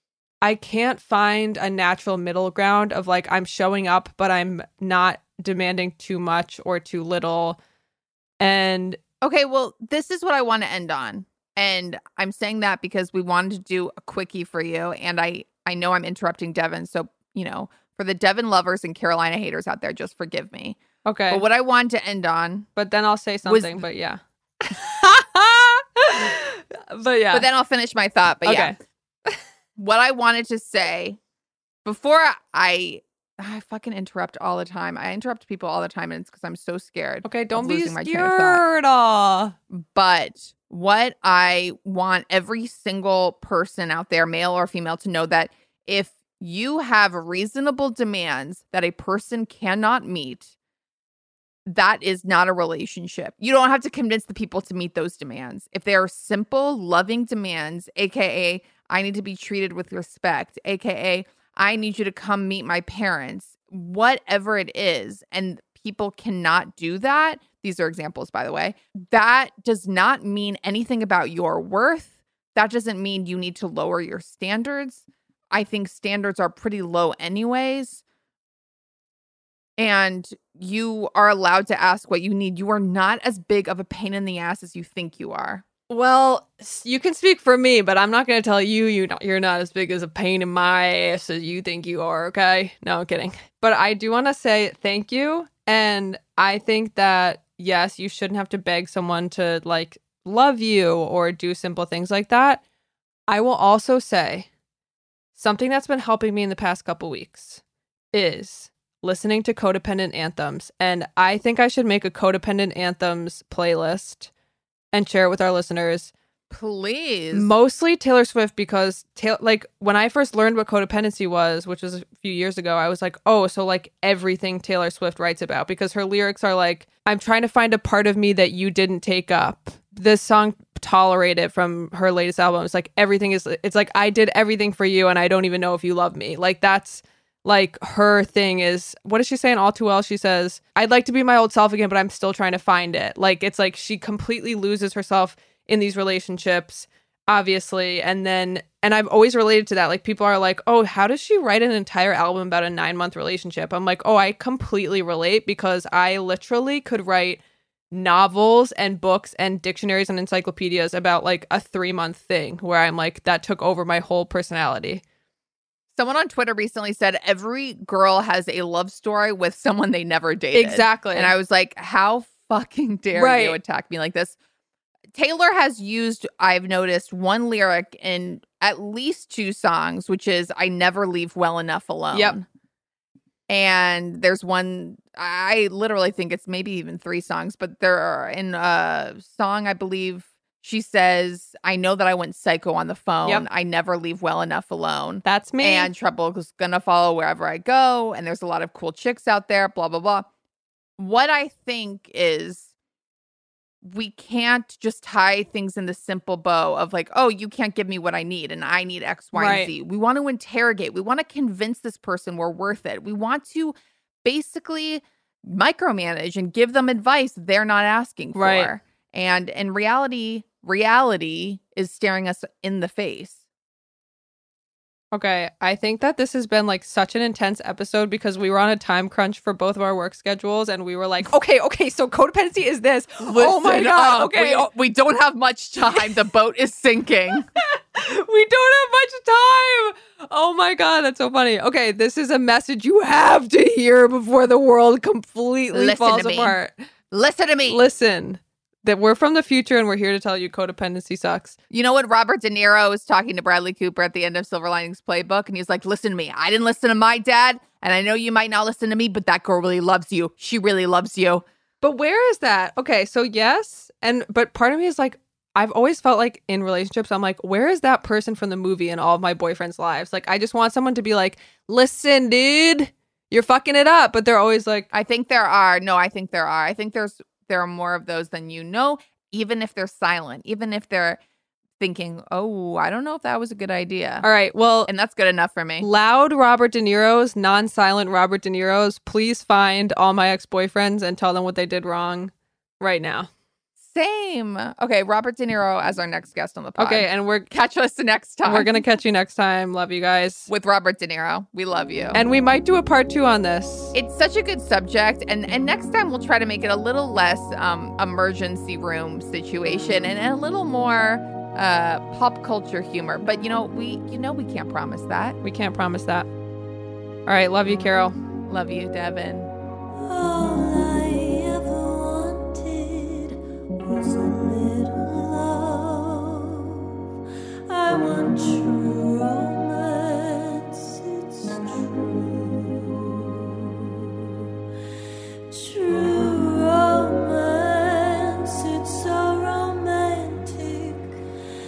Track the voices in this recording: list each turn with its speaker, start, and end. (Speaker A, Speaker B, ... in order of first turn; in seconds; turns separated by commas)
Speaker A: 0.4-7.6, Speaker A: 8.4-9.0, Speaker B: 9.2-22.7, Speaker A: 21.1-21.4, Speaker A: 22.8-27.5, Speaker B: 23.5-23.8, Speaker B: 27.3-28.8, Speaker A: 28.4-29.4, Speaker B: 29.8-31.2, Speaker B: 31.9-38.6, Speaker A: 37.2-39.5, Speaker B: 39.7-50.5, Speaker B: 51.7-78.0, Speaker B: 79.8-85.6, Speaker A: 85.9-102.6, Speaker A: 103.3-104.5, Speaker A: 105.4-107.6, Speaker A: 108.1-114.3, Speaker A: 114.9-116.1, Speaker B: 116.5-117.5, Speaker A: 117.3-157.4, Speaker A: 157.9-165.0, Speaker B: 166.0-174.3, Speaker A: 170.6-171.3, Speaker A: 173.2-173.6, Speaker B: 175.1-182.5, Speaker B: 183.5-200.3, Speaker A: 195.2-195.9, Speaker B: 201.0-202.7, Speaker B: 203.8-223.4, Speaker A: 209.3-209.7, Speaker A: 218.3-218.7, Speaker A: 225.1-234.7, Speaker B: 233.3-237.5, Speaker A: 237.6-246.8, Speaker B: 245.7-246.6, Speaker B: 247.1-247.8, Speaker A: 247.7-251.6, Speaker B: 251.7-261.4, Speaker A: 261.8-274.9, Speaker B: 274.9-281.2, Speaker B: 281.8-284.3, Speaker A: 284.2-284.9, Speaker B: 284.9-285.9, Speaker A: 285.8-293.3, Speaker B: 293.8-298.8, Speaker A: 296.8-297.5, Speaker A: 298.5-300.5, Speaker B: 300.5-302.2, Speaker A: 302.1-303.9, Speaker B: 303.9-315.4, Speaker A: 315.4-316.3, Speaker A: 317.3-318.1, Speaker B: 318.5-319.5, Speaker C: 319.9-326.9, Speaker C: 327.7-333.9, Speaker C: 335.5-341.1